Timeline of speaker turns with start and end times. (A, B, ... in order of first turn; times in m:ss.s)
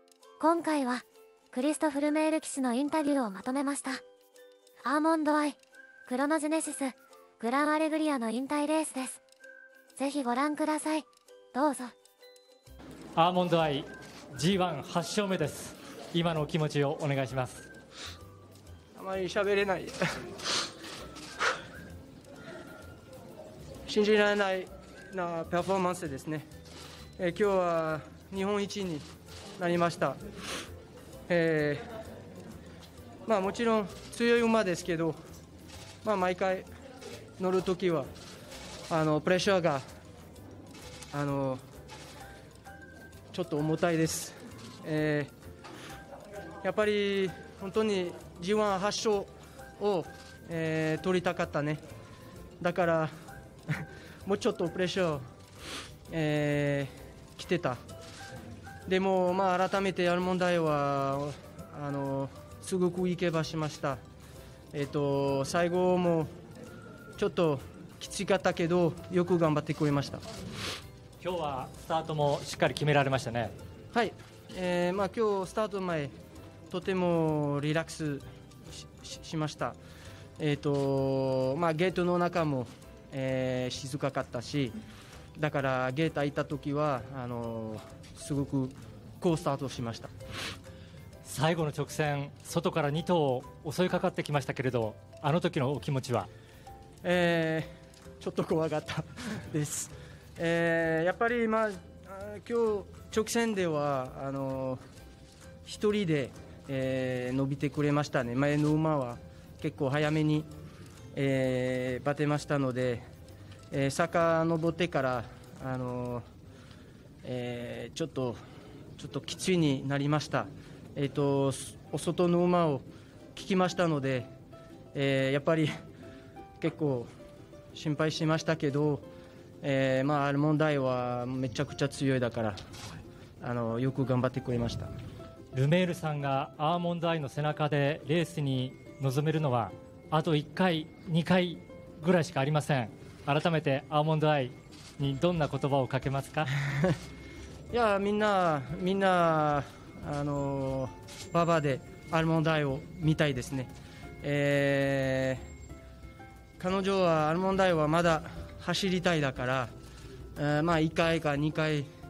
0:00.4-0:04.0 A
0:04.8-0:09.2 A
0:10.0-0:11.9 A
0:13.2-0:17.7 B
0:19.0-0:20.3 C
0:23.9-0:26.5 C
0:27.2-0:29.1 C
0:29.6-0:30.2 C
0:31.3-0:31.8 C
0:33.3-0:35.2 C
0:36.0-0:36.7 C
0:37.4-0:38.1 C
0:38.9-0:39.8 C
0:41.1-0:41.6 C
0:43.3-0:45.3 C
0:46.6-0:51.8 C
0:52.6-0:53.1 C
0:53.7-0:55.2 C
0:56.1-0:57.8 C
0:58.9-1:04.0 C
1:04.7-1:06.3 C
1:07.2-1:10.2 C
1:11.2-1:13.5 B
1:13.9-1:16.1 C
1:16.7-1:18.3 C
1:19.0-1:19.8 C
1:20.4-1:24.8 C
1:25.4-1:30.1 C
1:31.2-1:36.3 B
1:37.0-1:37.7 C
1:38.2-1:44.8 C
1:45.7-1:50.5 C
1:51.1-1:53.0 C
1:53.7-1:56.2 C
1:57.2-1:58.4 C
1:59.0-2:04.3 C
2:04.9-2:05.7 C
2:06.6-2:07.1 C
2:07.7-2:09.1 C
2:09.6-2:12.6 C
2:13.4-2:14.9 C
2:15.5-2:26.5 B
2:27.7-2:33.7 C
2:34.2-2:35.4 C
2:36.6-2:39.7 C
2:40.4-2:41.9 C